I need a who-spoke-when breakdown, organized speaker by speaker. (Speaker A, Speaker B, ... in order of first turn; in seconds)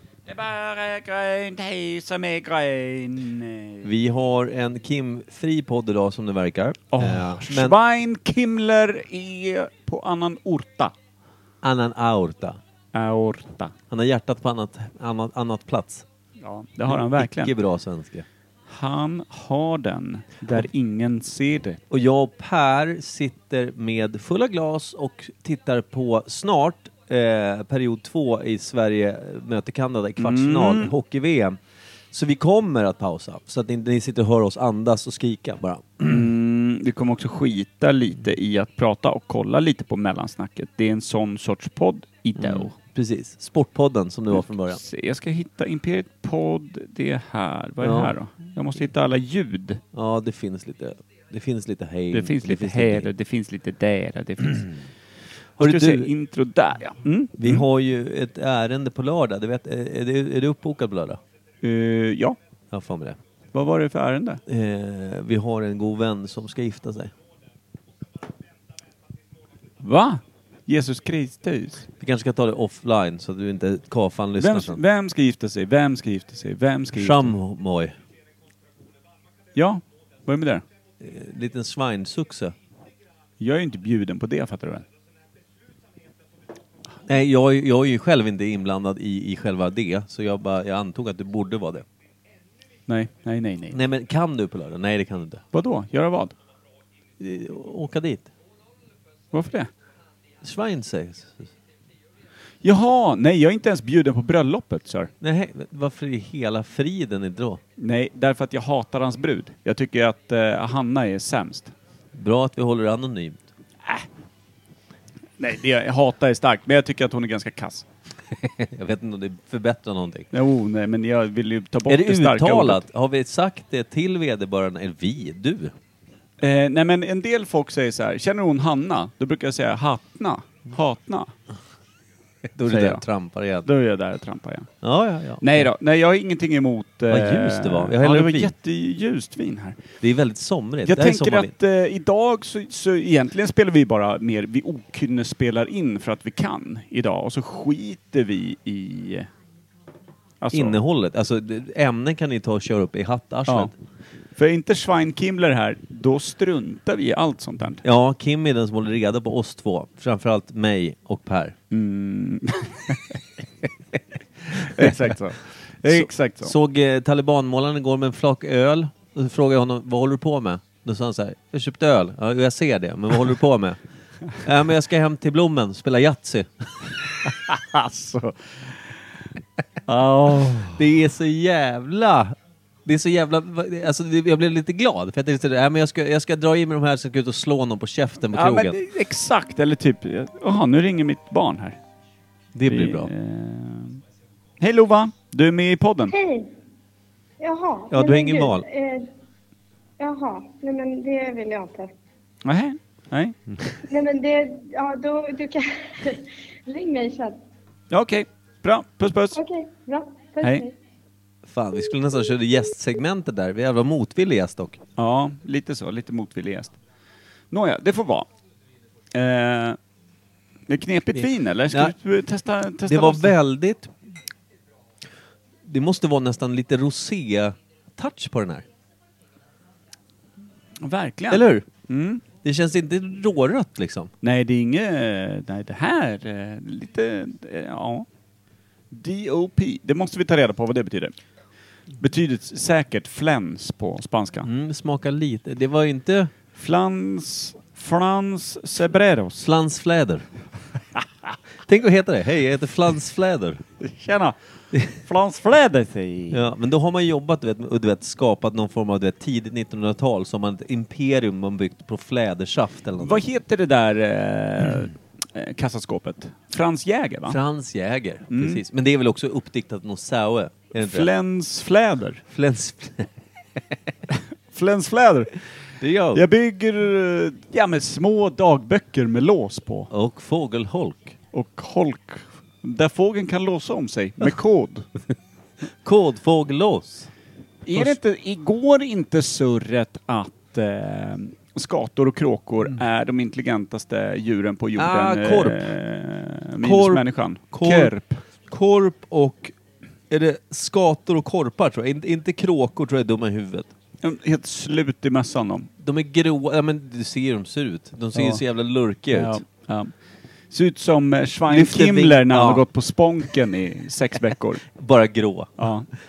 Speaker A: 0.3-3.9, 6.9-10.9, 12.9-13.7, 16.4-17.5, 18.7-21.8, 30.2-30.9, 36.0-42.8, 44.3-49.8, 52.1-54.8, 55.6-57.7, 61.6-62.4, 63.5-64.4, 69.8-71.9, 74.4-77.3, 79.6-80.6, 83.4-84.8, 92.9-93.8, 95.5-96.3, 99.3-99.7, 102.6-105.1, 107.8-111.7, 115.4-117.9, 120.3-122.8, 126.4-131.3, 132.7-133.0, 133.7-134.7, 135.4-139.8, 140.9-149.3, 150.4-150.8, 154.4-157.8, 161.7-163.2, 164.5-166.5, 177.2-178.7, 179.9-180.8, 188.3-191.8, 192.7-194.0, 194.6-196.2, 202.4-203.4, 207.9-209.4, 215.0-216.8, 217.5-218.3, 219.1-219.8, 220.7-223.4, 230.8-232.2, 234.2-238.1, 238.9-241.1, 242.0-244.5, 246.6-249.4, 253.8-256.4, 263.0-267.4, 268.3-268.6, 270.8-272.2, 274.5-275.3, 276.1-279.9, 281.3-284.9, 287.7-298.2, 304.0-305.7, 308.1-308.4, 309.1-309.9, 310.5-314.7, 315.6-315.9
Speaker B: 3.8-7.8, 11.6-12.6, 13.9-16.1, 16.9-18.3, 21.9-31.6, 32.1-36.1, 42.4-44.8, 47.8-48.1, 49.9-53.1, 55.6-56.1, 57.4-61.2, 62.7-63.2, 64.5-67.1, 72.0-74.8, 77.0-78.0, 81.0-82.5, 87.1-91.8, 93.7-95.4, 97.2-98.3, 100.4-101.5, 105.2-107.6, 112.1-113.5, 118.3-120.3, 121.9-125.7, 132.5-133.7, 134.8-135.7, 137.1-138.5, 140.0-141.5, 150.5-153.7, 157.8-161.6, 164.7-164.9, 165.8-173.8, 174.3-177.0, 180.6-188.8, 192.6-193.1, 197.9-198.7, 211.5-214.8, 221.2-221.9, 222.8-224.0, 225.7-228.7, 231.3-231.7, 232.4-234.1, 244.4-246.3, 249.4-250.3, 251.6-253.6, 256.3-263.2, 267.3-271.1, 272.3-273.1, 275.8-276.2, 279.9-281.2, 285.8-287.1, 294.8-295.7, 296.6-297.9, 298.5-299.6, 300.1-303.7, 305.8-309.4, 311.5-312.6, 314.8-315.7
Speaker C: 196.1-196.5, 197.4-199.1, 200.0-201.9, 203.9-207.4, 209.3-210.8